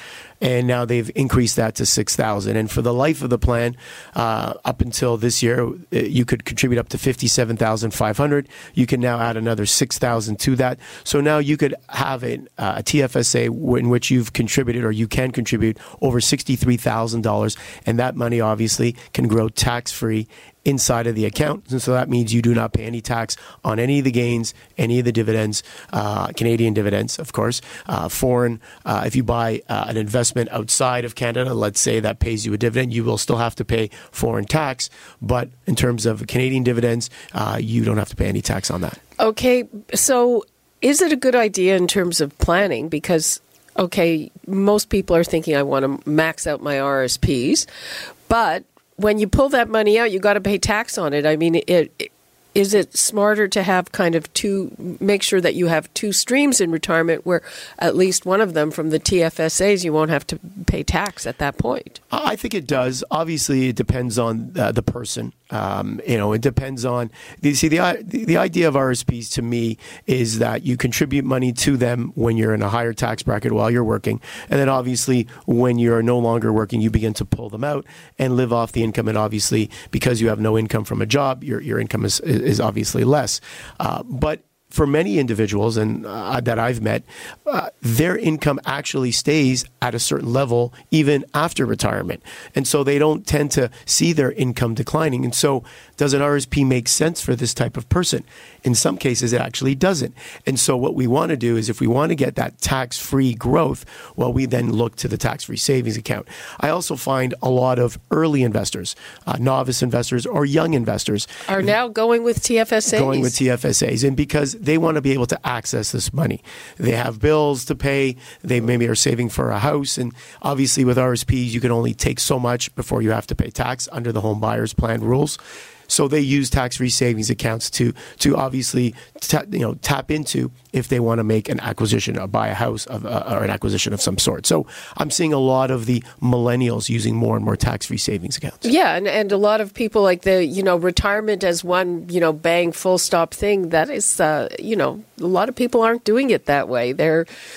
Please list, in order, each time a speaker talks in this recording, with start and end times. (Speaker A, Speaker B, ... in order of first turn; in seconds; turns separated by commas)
Speaker A: 0.4-39.0, Speaker B: 39.2-47.7, Speaker B: 48.3-62.0, Speaker A: 62.1-111.7, Speaker B: 111.5-113.3, Speaker A: 112.9-138.6, Speaker B: 138.6-147.3